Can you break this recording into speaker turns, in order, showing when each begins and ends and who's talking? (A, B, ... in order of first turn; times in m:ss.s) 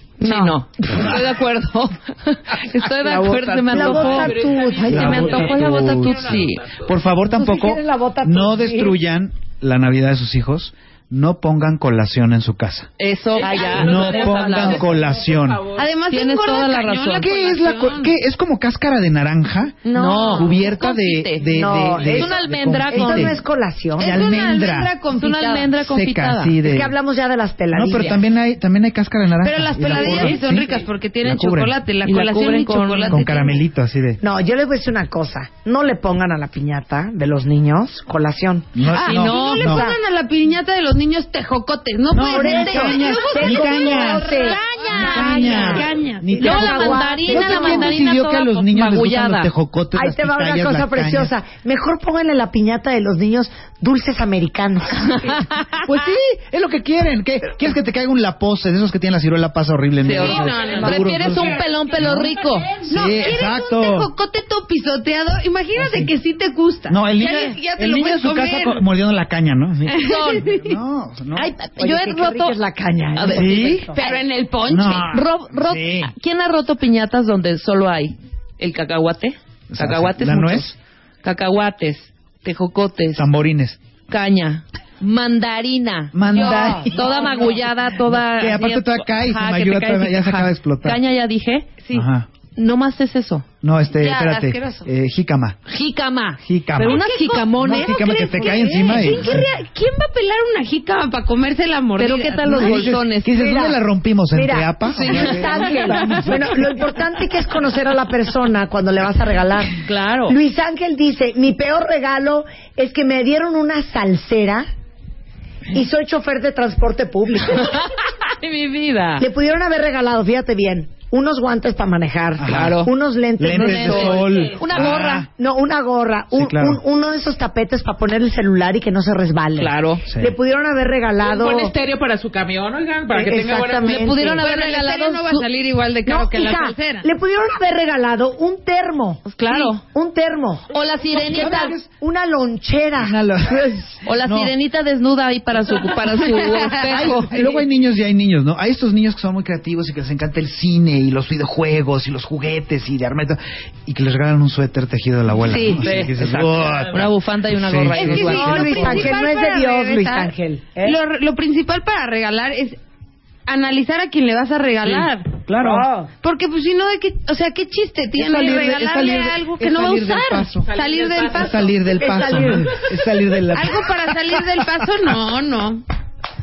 0:00.2-0:06.6 A
0:00.2-0:00.6 B
0:03.0-0:05.5 C
0:03.3-0:06.9 D
0:04.8-0:12.9 E
0:07.3-0:09.0 C
0:13.0-0:14.9 A
0:13.4-0:15.9 D
0:13.6-0:15.6 E
0:15.8-0:18.1 B
0:16.1-0:17.3 A
0:17.1-0:23.4 E
0:19.8-0:20.6 B
0:19.9-0:23.4 A
0:21.5-0:22.3 C
0:22.9-0:24.3 C
0:24.0-0:24.9 E
0:24.0-0:25.7 B
0:25.1-0:26.6 A
0:25.8-0:26.9 E
0:26.6-0:28.2 C
0:27.7-0:31.8 E
0:29.4-0:33.6 B
0:29.9-0:30.4 A
0:32.0-0:33.3 A
0:33.1-0:34.2 E
0:34.2-0:38.8 C
0:38.7-0:39.9 E
0:38.9-0:47.4 B
0:38.9-0:39.6 A
0:39.6-0:40.0 C
0:42.1-0:51.3 E
0:42.2-0:44.6 C
0:42.5-0:42.9 A
0:44.4-0:45.9 A
0:45.3-0:47.9 C
0:46.4-0:49.5 A
0:49.9-0:55.3 C
0:55.1-0:55.8 A
0:55.8-1:04.1 E
1:00.0-1:02.8 A
1:00.2-1:01.2 B
1:02.8-1:08.8 B
1:05.8-1:06.1 E
1:06.9-1:11.5 E
1:09.9-1:10.8 B
1:10.0-1:10.5 A
1:11.4-1:12.6 A
1:11.8-1:14.1 C
1:13.1-1:14.2 A
1:13.3-1:13.9 E
1:13.9-1:15.1 B
1:14.7-1:16.1 E
1:14.8-1:23.2 A
1:19.7-1:20.8 E
1:23.2-1:23.8 E
1:24.1-1:31.8 A
1:26.1-1:27.1 E
1:26.3-1:27.6 B
1:28.1-1:31.0 E
1:31.8-1:32.1 B
1:31.9-1:32.3 E
1:32.6-1:33.4 A
1:33.6-1:35.6 E
1:33.9-1:34.9 B
1:35.7-1:39.1 A
1:36.4-1:39.5 E
1:36.8-1:42.8 B
1:42.0-1:43.5 A
1:42.5-1:46.5 E
1:43.3-1:43.8 C
1:44.3-1:54.7 C
1:44.9-1:46.2 A
1:49.8-1:50.4 A
1:55.7-1:57.8 C
1:57.6-1:59.2 A
1:59.2-2:04.2 C
2:02.4-2:02.9 E
2:02.4-2:02.9 A
2:03.4-2:05.3 E
2:03.5-2:05.2 A
2:03.9-2:04.6 D
2:04.8-2:11.7 C
2:06.3-2:06.8 E
2:09.6-2:10.0 A
2:10.1-2:10.3 E
2:11.2-2:14.1 D
2:13.1-2:14.4 C
2:13.8-2:15.4 A
2:14.4-2:17.1 B
2:16.0-2:20.7 C
2:19.2-2:19.8 A
2:20.7-2:21.8 A
2:21.1-2:21.9 E
2:21.4-2:23.1 C
2:23.0-2:24.5 E
2:24.0-2:27.5 A
2:26.0-2:27.5 B
2:26.9-2:39.1 E
2:35.5-2:39.1 A
2:37.9-2:42.8 B
2:38.3-2:41.0 C
2:43.4-2:45.4 B
2:45.5-2:45.9 E
2:45.6-2:46.1 C
2:46.2-2:51.7 B
2:48.1-2:50.7 E
2:50.6-2:52.5 D
2:51.3-2:54.4 E
2:51.9-2:52.8 C
2:53.5-2:55.8 B